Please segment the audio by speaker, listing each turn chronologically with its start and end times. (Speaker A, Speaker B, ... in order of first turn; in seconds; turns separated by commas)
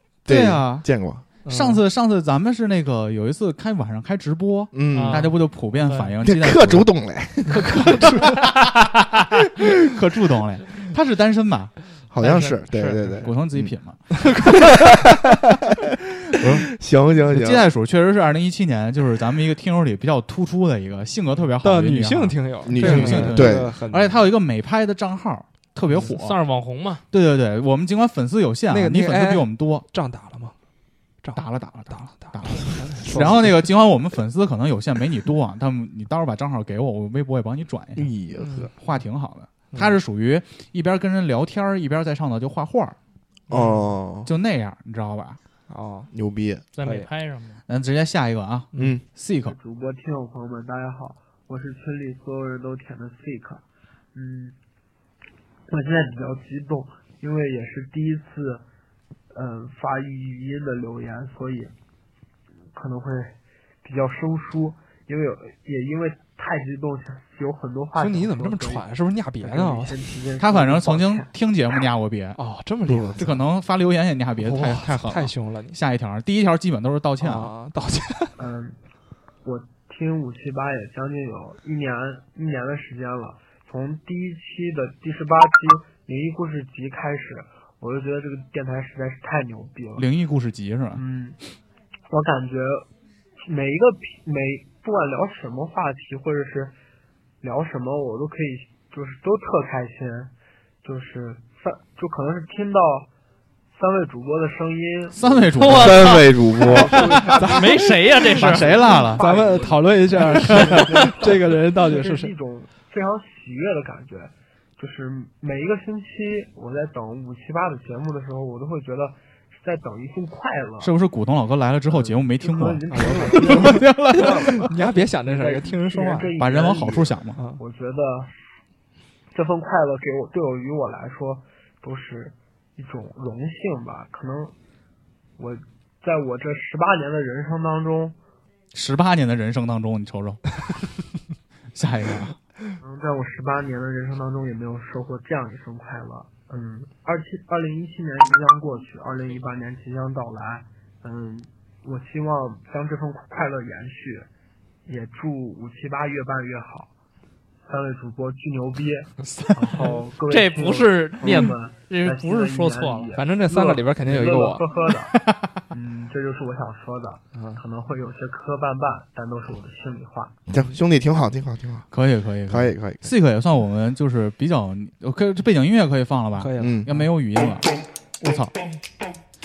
Speaker A: 0.3-1.3, Speaker B: 0.3-0.9, Speaker C: 1.4-1.8, Speaker B: 1.5-6.9, Speaker A: 4.7-5.3, Speaker D: 4.9-6.1, Speaker A: 6.2-8.3, Speaker B: 7.5-11.7, Speaker A: 12.1-13.7, Speaker D: 12.2-13.1, Speaker B: 13.2-14.0, Speaker A: 14.4-15.6, Speaker B: 16.3-16.7, Speaker A: 16.7-17.6, Speaker B: 17.3-26.4, Speaker C: 21.6-24.3, Speaker A: 22.6-23.8, Speaker D: 26.1-27.0, Speaker B: 27.1-29.9, Speaker C: 28.7-30.6, Speaker C: 31.2-33.6, Speaker B: 31.4-38.1, Speaker A: 38.0-38.7, Speaker C: 38.4-38.7, Speaker B: 38.8-43.0, Speaker A: 43.5-44.3, Speaker C: 43.5-43.9, Speaker B: 44.3-45.4, Speaker C: 45.7-46.1, Speaker A: 46.1-46.6, Speaker D: 46.8-47.6, Speaker B: 47.7-49.5, Speaker A: 48.8-49.0, Speaker E: 49.4-54.5, Speaker E: 55.7-58.6, Speaker E: 59.3-61.7, Speaker E: 62.7-68.9, Speaker C: 68.0-70.1, Speaker E: 69.4-71.3, Speaker B: 70.4-72.4, Speaker C: 72.4-73.4, Speaker B: 73.2-77.5, Speaker C: 74.4-75.8, Speaker C: 77.2-78.3, Speaker E: 78.4-78.8, Speaker E: 79.4-90.1, Speaker B: 90.0-91.0, Speaker E: 90.9-91.4, Speaker E: 92.1-92.9, Speaker E: 93.4-96.7, Speaker E: 97.4-100.3, Speaker E: 100.8-103.1, Speaker E: 103.8-105.7, Speaker B: 105.1-106.1, Speaker D: 105.5-106.7, Speaker A: 105.7-107.0, Speaker E: 106.6-120.9, Speaker C: 107.4-112.3, Speaker D: 107.4-108.8, Speaker B: 108.3-109.2, Speaker B: 120.8-124.7, Speaker E: 122.4-128.3, Speaker C: 122.9-126.3, Speaker B: 126.4-127.4, Speaker E: 129.3-134.5, Speaker E: 135.4-138.2, Speaker B: 138.7-140.4, Speaker B: 141.8-142.4, Speaker E: 142.8-154.3, Speaker E: 154.9-156.9, Speaker E: 157.7-165.2, Speaker D: 159.8-163.1, Speaker C: 163.1-164.6, Speaker B: 165.2-165.6, Speaker E: 165.7-170.4, Speaker A: 170.5-171.9, Speaker B: 171.9-177.7, Speaker A: 172.5-173.1, Speaker C: 176.4-177.1, Speaker A: 176.6-176.9, Speaker B: 178.2-178.5